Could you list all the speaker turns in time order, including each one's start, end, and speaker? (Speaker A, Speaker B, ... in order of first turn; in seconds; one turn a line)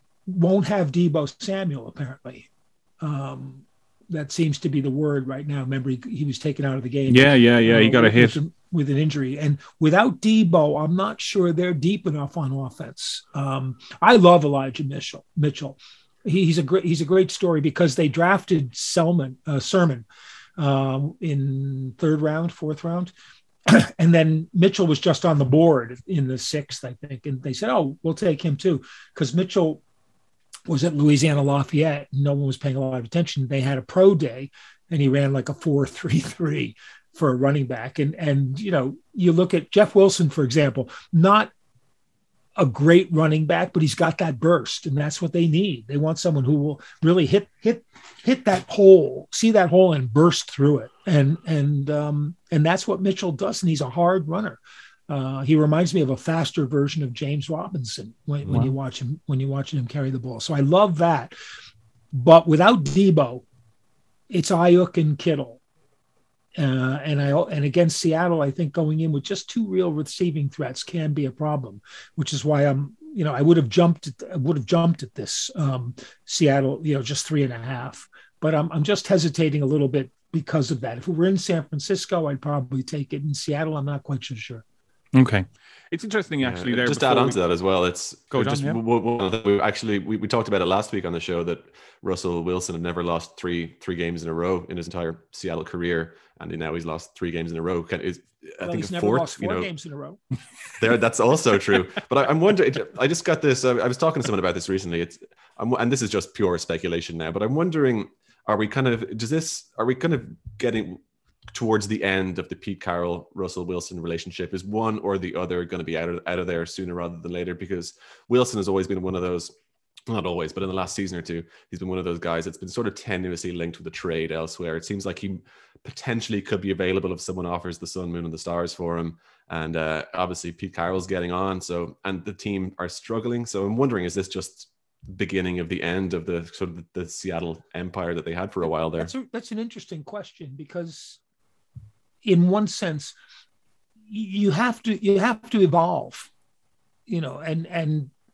Speaker A: 0.3-2.5
Speaker A: 3.0-20.1
Speaker B: 7.1-8.4
Speaker A: 20.6-23.1
Speaker A: 23.7-29.8
Speaker A: 30.7-41.5
Speaker A: 42.6-61.3
Speaker B: 58.5-58.7
Speaker A: 62.1-63.4
Speaker A: 64.3-65.6
Speaker A: 66.6-84.6
Speaker B: 85.1-87.3
Speaker C: 86.4-99.7
Speaker B: 88.3-88.8
Speaker A: 98.6-100.2
Speaker C: 100.8-111.0
Speaker C: 111.5-119.5
Speaker C: 120.1-139.1
Speaker A: 139.0-141.2
Speaker A: 142.2-143.1
Speaker A: 144.1-146.3
Speaker A: 147.1-148.1